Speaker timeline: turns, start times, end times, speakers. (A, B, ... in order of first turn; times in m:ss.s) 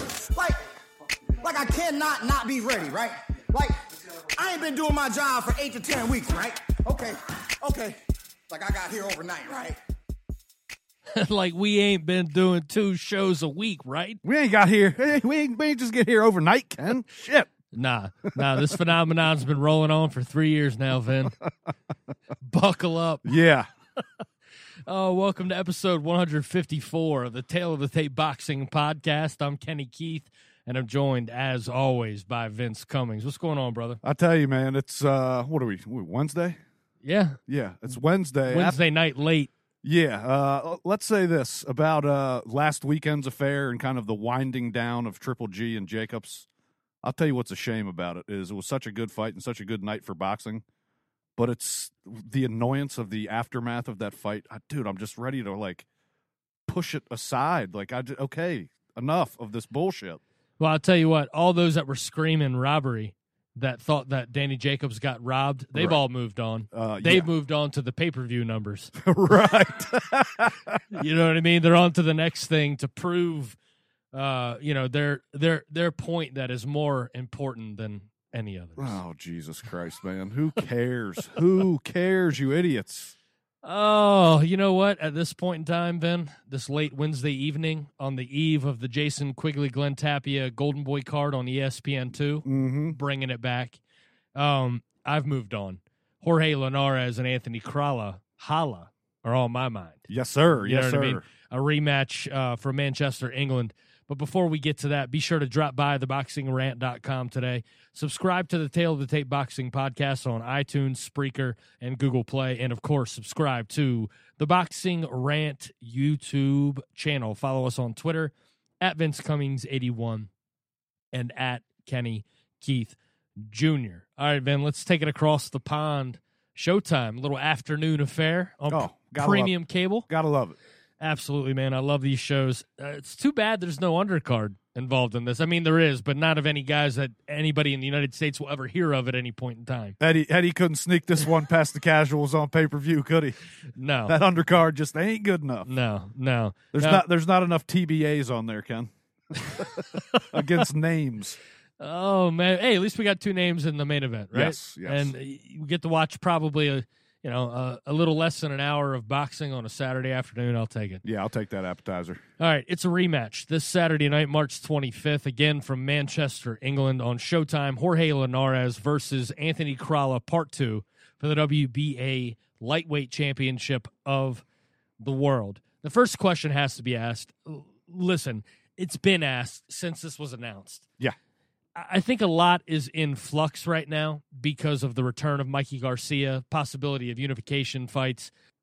0:00.3-0:00.6 A
0:01.4-0:03.8 A
0:04.3-0:09.8 A
0:11.1-0:14.2 B
0:14.2-0:17.5 C
0:17.7-0:21.4 B
0:18.3-0:18.8 C
0:22.4-0:23.3 B
0:23.2-0:23.7 C
0:24.8-0:34.0 B
0:34.0-0:36.6 C
0:37.0-0:37.4 B
0:37.5-0:38.8 C
0:38.5-0:39.5 B
0:39.8-0:46.5 C
0:47.0-0:50.6 C
0:51.4-0:55.8 C
0:56.7-1:00.2 C
1:00.6-1:08.9 B
1:06.7-1:07.3 C
1:09.0-1:10.8 C
1:10.9-1:13.6 B
1:14.1-1:19.0 B
1:18.8-1:23.1 C
1:23.6-1:33.8 B
1:32.4-1:33.0 C
1:34.4-1:40.0 B
1:40.1-1:41.2 C
1:40.6-2:00.3 B
2:01.1-2:10.1 B
2:08.7-2:09.6 C
2:10.1-2:10.6 C
2:11.0-2:20.0 B
2:20.0-2:23.4 C
2:23.7-2:24.1 B
2:24.1-2:25.7 C
2:25.6-2:27.0 B
2:26.7-2:31.4 C
2:29.5-2:30.4 B
2:31.8-2:41.0 B
2:34.3-2:35.1 C
2:41.0-2:42.2 C
2:42.4-2:54.4 B
2:55.0-3:00.8 B
3:01.7-3:08.3 B